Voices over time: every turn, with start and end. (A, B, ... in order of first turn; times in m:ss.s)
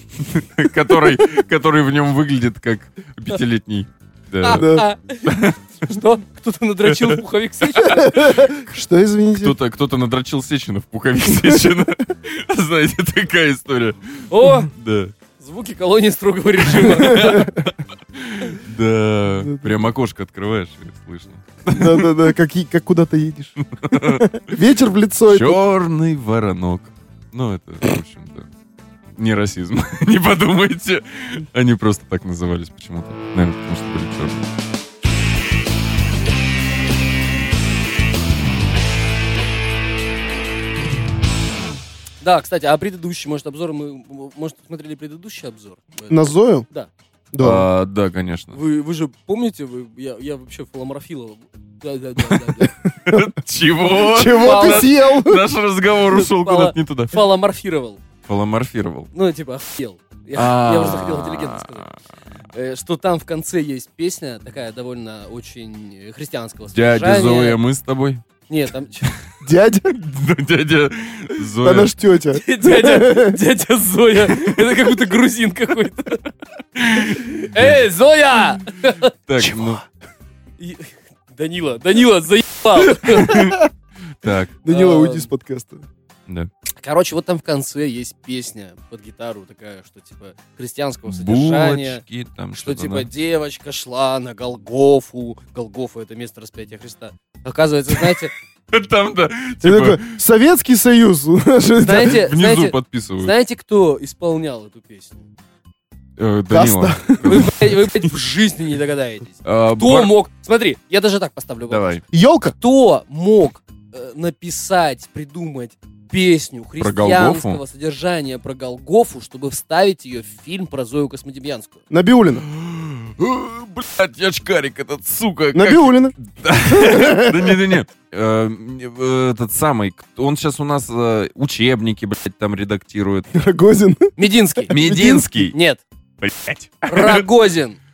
0:00.2-0:04.7 A
0:04.4-0:05.3 B
0:04.5-0:04.9 C
0:05.2-0:05.6 A
0:05.8-0:08.5 B
0:06.9-0:07.2 A
0:07.8-0:08.6 A
0:07.8-0:09.5 C
0:09.4-0:15.1 A
0:14.3-0:14.7 B
0:15.4-0:17.4 B
0:16.7-0:22.2 A
0:16.9-0:17.7 C
0:19.4-0:19.8 C
0:21.7-0:25.6 C
0:23.8-0:24.2 A
0:25.3-0:28.5 A
0:29.2-0:34.5 A
0:42.2-0:46.9 B
0:46.1-0:46.7 C
0:47.3-0:47.7 C
0:47.4-0:48.6 A
0:48.5-0:52.8 B
0:52.3-0:57.2 A
0:53.9-0:55.4 C
0:54.2-0:54.9 B
0:56.0-0:58.0 B
0:58.2-0:59.1 A
0:59.1-1:01.9 B
1:00.3-1:01.9 A
1:02.5-1:07.6 B
1:06.7-1:08.2 A
1:08.5-1:09.1 B
1:09.4-1:09.9 C
1:09.9-1:11.9 A
1:11.6-1:13.4 C
1:12.4-1:16.2 B
1:16.8-1:17.8 A
1:17.3-1:19.1 B
1:19.2-1:19.8 A
1:19.4-1:19.8 C
1:20.6-1:23.4 B
1:23.0-1:23.7 C
1:23.1-1:23.6 A
1:24.2-1:24.6 A
1:24.6-1:25.9 C
1:24.7-1:25.3 B
1:26.8-1:32.0 B
1:31.1-1:33.1 A
1:32.5-1:38.3 B
1:38.7-1:40.2 A
1:39.6-1:42.2 C
1:41.8-1:45.3 B
1:41.9-1:43.4 A
1:46.2-1:48.1 A
1:46.5-1:47.5 C
1:47.2-2:01.8 B
1:49.4-1:50.1 A
1:51.7-1:52.0 A
1:52.1-1:52.6 C
1:56.8-1:57.6 A
2:01.9-2:02.4 C
2:02.5-2:13.3 A
2:05.5-2:06.1 C
2:06.7-2:07.5 C
2:13.3-2:15.4 C
2:14.2-2:14.7 B
2:14.7-2:15.6 A
2:15.5-2:15.8 B
2:16.2-2:17.2 A
2:16.9-2:17.8 B